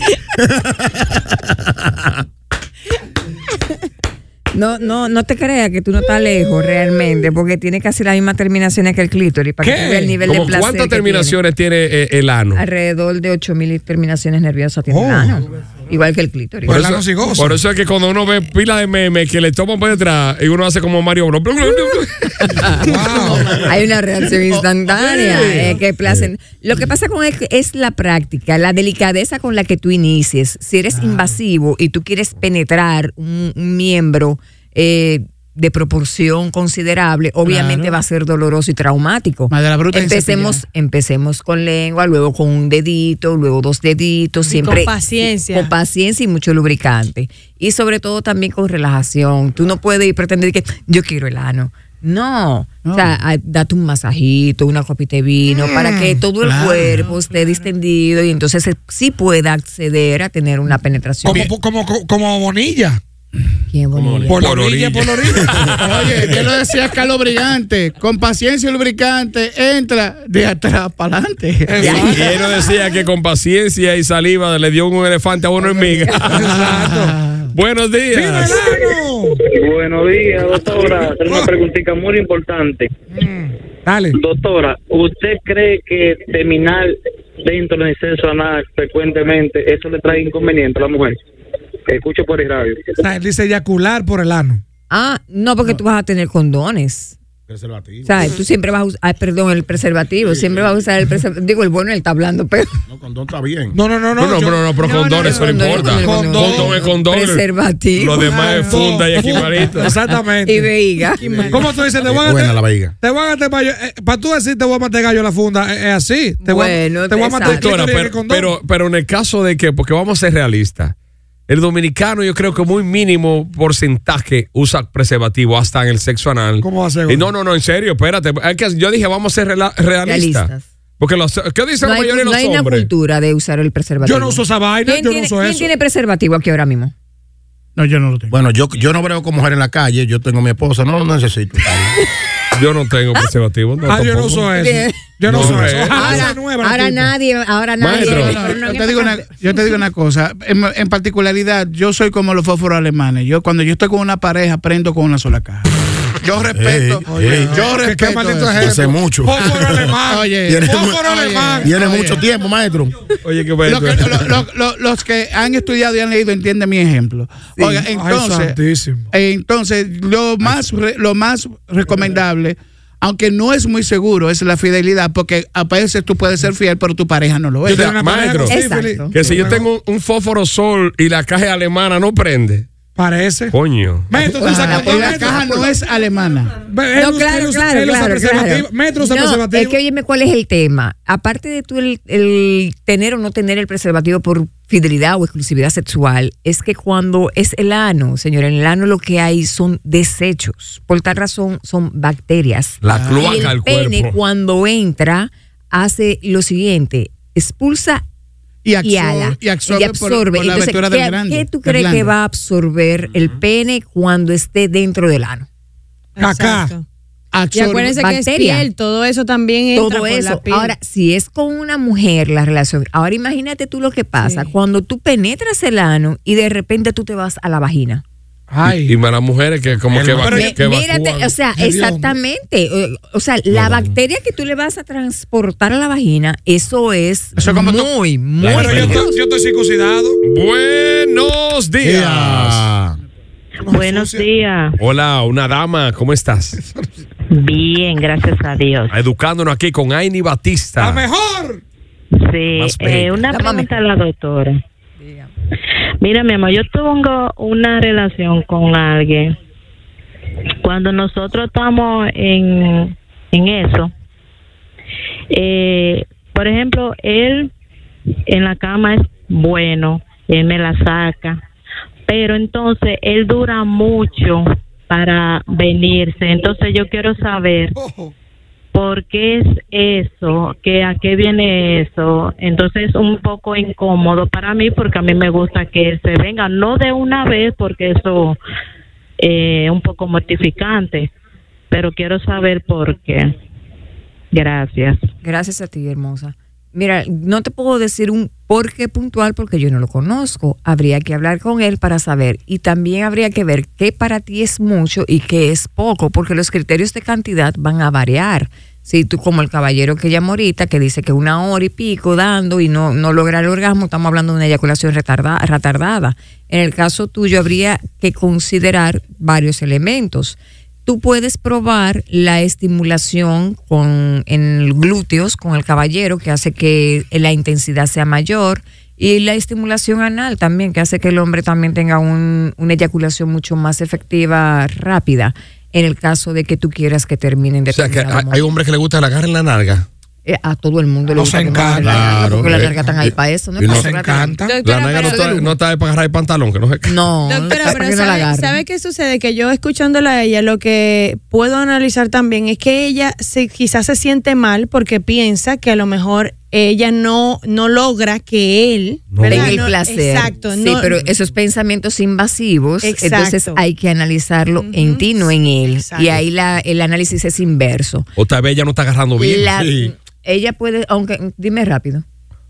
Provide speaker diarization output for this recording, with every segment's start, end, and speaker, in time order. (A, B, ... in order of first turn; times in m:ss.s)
0:04.5-0:11.4 A
0:09.6-0:10.2 B
0:10.2-0:12.6 C
0:12.6-0:16.9 A
0:14.9-0:15.4 B
0:16.6-0:17.6 B
0:16.7-0:22.7 C
0:22.6-1:01.5 A
0:22.8-0:23.6 B
0:24.8-0:25.8 C
0:30.9-0:31.3 D
0:37.4-0:38.0 D
0:39.5-0:40.6 D
0:44.4-0:45.7 E
0:52.8-0:53.2 D
0:55.5-0:56.2 B
0:56.4-0:57.1 D
0:56.8-0:57.7 E
1:01.2-1:03.0 B
1:03.7-1:04.4 A
1:04.0-1:04.3 F
1:04.0-1:06.4 C
1:04.3-1:05.6 B
1:05.8-1:12.0 D
1:11.7-1:12.4 B
1:11.8-1:12.1 A
1:11.8-1:16.8 C
1:15.6-1:16.2 A
1:16.2-1:17.2 B
1:16.6-1:17.5 D
1:17.5-1:18.7 C
1:18.1-1:19.4 B
1:19.6-1:22.8 G
1:21.3-1:21.5 B
1:23.1-1:24.2 B
1:24.2-1:31.2 G
1:31.9-1:32.8 G
1:33.0-1:34.6 B
1:34.9-1:37.2 A
1:37.5-1:38.4 F
1:38.0-1:42.8 A
1:40.2-1:40.8 F
1:42.9-1:43.8 F
1:43.7-1:46.8 B
1:44.2-1:50.0 C
1:44.8-1:45.7 E
1:45.0-1:48.7 A
1:48.2-1:50.7 B
1:50.1-1:51.5 A
1:51.2-1:51.8 E
1:51.5-1:58.5 B
1:52.0-1:52.9 F
1:56.4-1:57.7 A
1:57.4-2:00.9 C
2:01.5-2:12.9 C
2:06.6-2:07.3 B
2:10.0-2:10.7 A
2:11.8-2:16.9 A
2:14.0-2:15.7 B
2:17.8-2:18.3 D
2:18.3-2:22.0 F
2:22.5-2:24.6 C
2:23.9-2:27.2 B
2:24.5-2:29.2 A
2:25.2-2:26.3 C
2:27.8-2:28.5 C
2:28.0-2:35.7 D
2:36.2-2:38.8 D
2:36.5-2:37.7 F
2:37.1-2:41.8 B
2:38.6-2:39.9 F
2:40.0-2:42.2 D
2:40.5-2:41.0 F
2:41.6-2:43.0 F
2:43.2-2:44.3 C
2:43.6-2:48.6 D
2:47.6-2:47.8 A
2:47.9-2:49.1 B
2:49.1-2:57.9 D
2:57.6-2:59.6 B
2:57.7-2:58.6 C
2:58.5-2:59.2 A
2:59.1-3:02.7 C
3:03.0-3:03.6 B
3:03.5-3:04.2 C
3:04.1-3:05.6 B
3:04.4-3:06.5 D
3:04.4-3:05.7 A
3:06.6-3:09.8 B
3:06.9-3:28.0 A
3:22.8-3:24.2 C
3:22.9-3:23.5 D
3:28.6-3:32.2 D
3:28.8-3:35.5 A
3:36.2-3:36.8 E
3:36.2-3:36.7 B
3:37.3-3:38.0 D
3:37.5-3:40.8 E
3:37.9-3:38.7 A
3:39.7-3:48.0 A
3:44.2-3:44.5 E
3:48.5-3:49.0 B
3:48.6-3:51.4 C
3:49.9-3:50.2 F
3:50.1-3:50.6 B
3:50.3-3:59.1 A
3:51.6-3:52.2 B
3:53.5-3:53.9 F
3:57.4-3:57.9 D
3:58.4-4:00.2 B
3:58.4-3:59.0 C
4:00.2-4:02.7 C
4:01.8-4:03.0 F
4:03.6-4:04.3 B
4:03.7-4:04.8 H
4:04.8-4:06.6 C
4:07.3-4:08.9 H
4:08.9-4:11.0 C
4:10.8-4:11.6 B
4:12.2-4:14.6 H
4:12.5-4:13.3 C
4:13.3-4:13.8 A
4:15.0-4:15.3 A
4:16.0-4:19.4 H
4:20.6-4:23.9 H
4:25.3-4:27.5 H
4:28.3-4:31.4 H
4:32.1-4:37.8 H
4:37.8-4:38.1 B
4:38.7-4:48.4 H
4:49.2-4:51.1 H
4:51.7-4:53.3 H
4:54.3-4:55.0 H
4:55.2-5:38.4 A
5:37.7-5:39.8 C
5:38.3-5:38.7 F
5:40.2-5:44.4 A
5:41.1-5:42.0 B
5:41.8-5:43.9 F
5:43.7-5:44.6 B
5:44.4-5:45.4 E
5:44.6-5:47.0 C
5:45.0-5:45.5 A
5:46.8-5:48.6 A
5:47.2-6:01.1 E
5:59.1-5:59.7 C
5:59.2-6:08.1 A
6:02.8-6:03.6 E
6:04.6-6:06.2 E
6:08.2-6:09.5 C
6:09.2-6:12.0 A
6:09.4-6:09.9 F